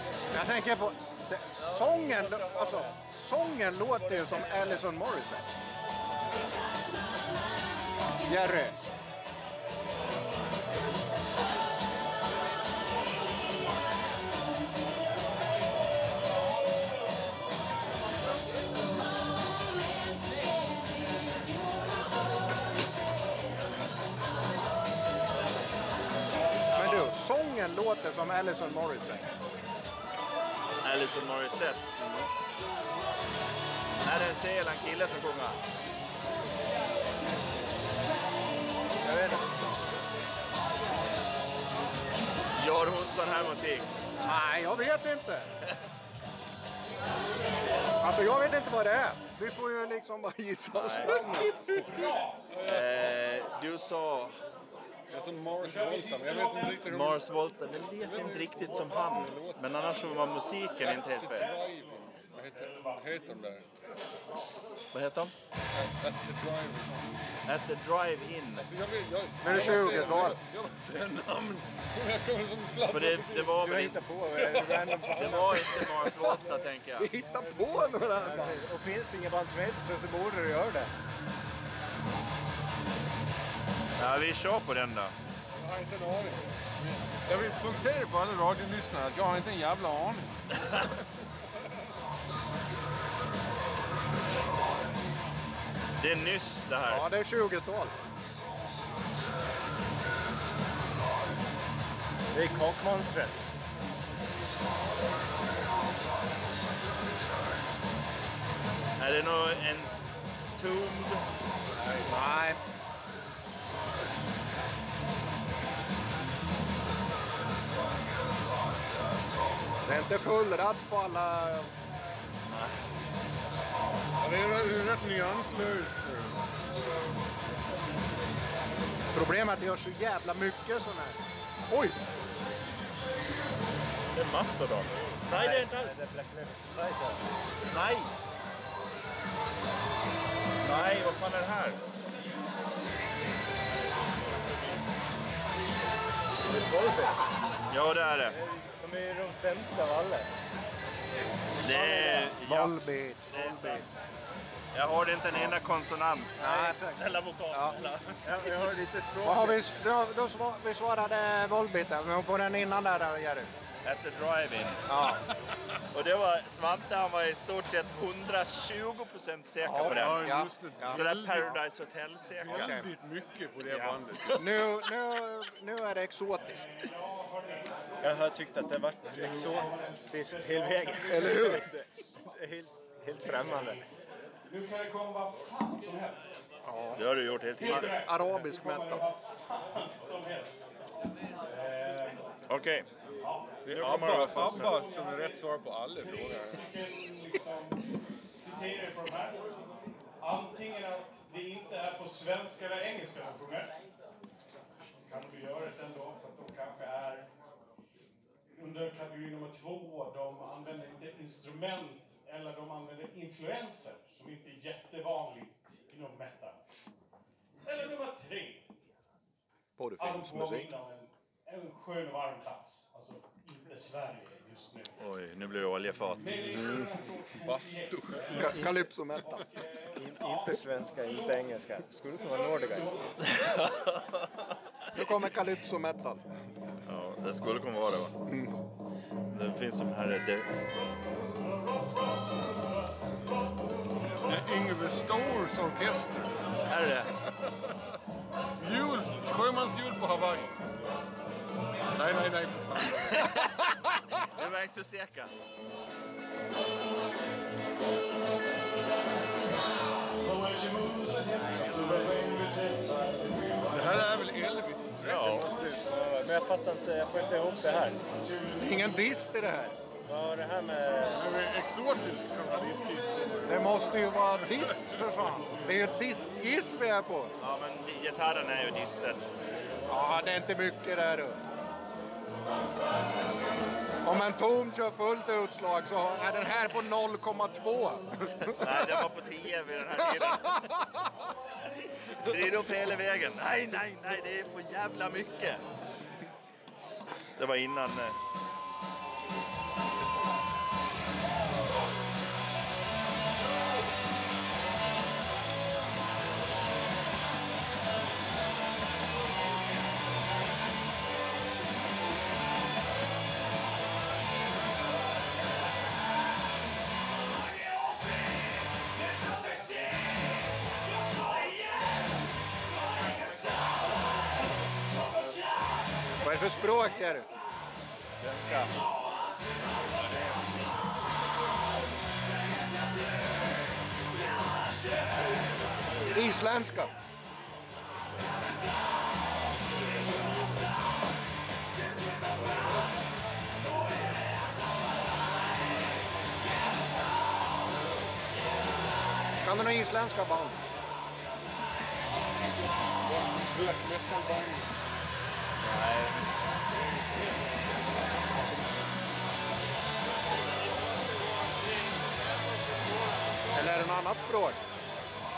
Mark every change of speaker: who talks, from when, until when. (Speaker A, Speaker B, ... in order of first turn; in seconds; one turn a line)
Speaker A: 0.3-5.5
Speaker B: 1.6-2.9
Speaker B: 3.9-4.8
Speaker A: 8.3-8.8
Speaker B: 26.7-27.1
Speaker A: 26.7-29.3
Speaker B: 30.8-31.9
Speaker A: 32.0-32.3
Speaker B: 34.0-35.6
Speaker C: 39.0-39.4
Speaker B: 42.5-43.9
Speaker A: 44.2-45.5
Speaker A: 48.0-51.5
Speaker B: 50.7-51.3
Speaker D: 51.0-53.3
Speaker E: 51.9-52.4
Speaker B: 52.6-54.3
Speaker D: 55.1-57.3
Speaker E: 55.6-56.7
Speaker B: 56.8-61.5
Speaker D: 58.0-59.9
Speaker D: 60.8-63.7
Speaker B: 64.9-65.3
Speaker D: 65.7-67.2
Speaker B: 67.5-68.7
Speaker D: 68.6-73.7
Speaker A: 69.4-70.4
Speaker B: 69.5-69.9
Speaker B: 72.9-74.0
Speaker C: 73.5-75.8
Speaker D: 74.3-76.2
Speaker B: 75.1-77.1
Speaker A: 77.0-78.7
Speaker C: 77.2-80.9
Speaker B: 84.0-85.1
Speaker D: 85.6-90.3
Speaker B: 96.0-97.0
Speaker A: 96.9-97.9
Speaker C: 102.3-103.5
Speaker B: 109.0-109.9
Speaker B: 110.5-111.2
Speaker A: 112.0-112.6
Speaker A: 119.8-121.7
Speaker B: 122.5-122.8
Speaker D: 124.2-126.5
Speaker A: 129.1-131.2
Speaker A: 131.7-131.9
Speaker B: 134.1-136.0
Speaker C: 135.3-137.2
Speaker B: 137.7-138.1
Speaker B: 140.6-141.8
Speaker C: 146.4-147.2
Speaker B: 147.7-148.3
Speaker C: 148.2-150.3
Speaker B: 151.6-153.9
Speaker C: 151.6-152.3
Speaker A: 152.4-153.9
Speaker B: 154.7-158.6
Speaker A: 156.4-157.8
Speaker C: 158.2-159.6
Speaker A: 159.2-163.5
Speaker B: 163.8-164.8
Speaker A: 164.9-165.2
Speaker B: 165.9-172.8
Speaker A: 169.6-171.1
Speaker D: 169.8-171.6
Speaker D: 172.4-174.8
Speaker A: 172.5-172.9
Speaker A: 173.7-176.7
Speaker E: 176.8-177.8
Speaker C: 178.0-183.8
Speaker E: 179.1-181.6
Speaker A: 181.1-181.7
Speaker E: 183.2-183.8
Speaker E: 184.5-186.2
Speaker A: 186.6-187.0
Speaker B: 186.9-188.0
Speaker E: 187.6-190.6
Speaker A: 187.6-189.1
Speaker E: 191.5-192.2
Speaker B: 192.5-192.9
Speaker E: 193.2-195.4
Speaker D: 193.6-196.6
Speaker B: 193.7-194.8
Speaker E: 196.4-197.7
Speaker E: 198.4-199.5
Speaker E: 200.2-203.7
Speaker E: 205.1-207.2
Speaker E: 208.6-216.6
Speaker E: 217.6-218.6
Speaker A: 219.8-220.7
Speaker E: 220.0-224.9
Speaker B: 225.0-226.4
Speaker D: 226.2-228.7
Speaker E: 226.2-228.7
Speaker A: 226.5-226.9
Speaker A: 228.3-229.5
Speaker E: 229.4-230.6
Speaker C: 229.9-233.1
Speaker E: 232.2-233.7
Speaker B: 233.2-234.5
Speaker A: 234.9-236.2
Speaker B: 236.9-238.2
Speaker A: 238.3-238.5
Speaker B: 239.3-240.5
Speaker D: 244.2-246.3
Speaker B: 246.7-247.1
Speaker D: 247.4-247.8
Speaker D: 248.6-250.6
Speaker D: 251.9-253.6
Speaker B: 253.1-253.6
Speaker B: 254.3-255.3
Speaker E: 260.2-263.7
Speaker D: 263.7-265.5
Speaker C: 265.1-268.0
Speaker A: 268.6-269.8
Speaker C: 270.1-271.2
Speaker D: 271.2-275.0
Speaker A: 273.4-277.3
Speaker B: 277.4-279.2
Speaker A: 279.9-281.4
Speaker A: 284.0-289.1
Speaker B: 288.4-290.7
Speaker A: 290.3-290.7
Speaker B: 292.2-295.6
Speaker B: 297.4-298.2
Speaker A: 326.2-327.3
Speaker C: 328.2-328.7
Speaker A: 336.1-336.9
Speaker A: 349.4-350.6
Speaker D: 353.0-354.7
Speaker B: 355.6-356.3
Speaker A: 363.5-364.6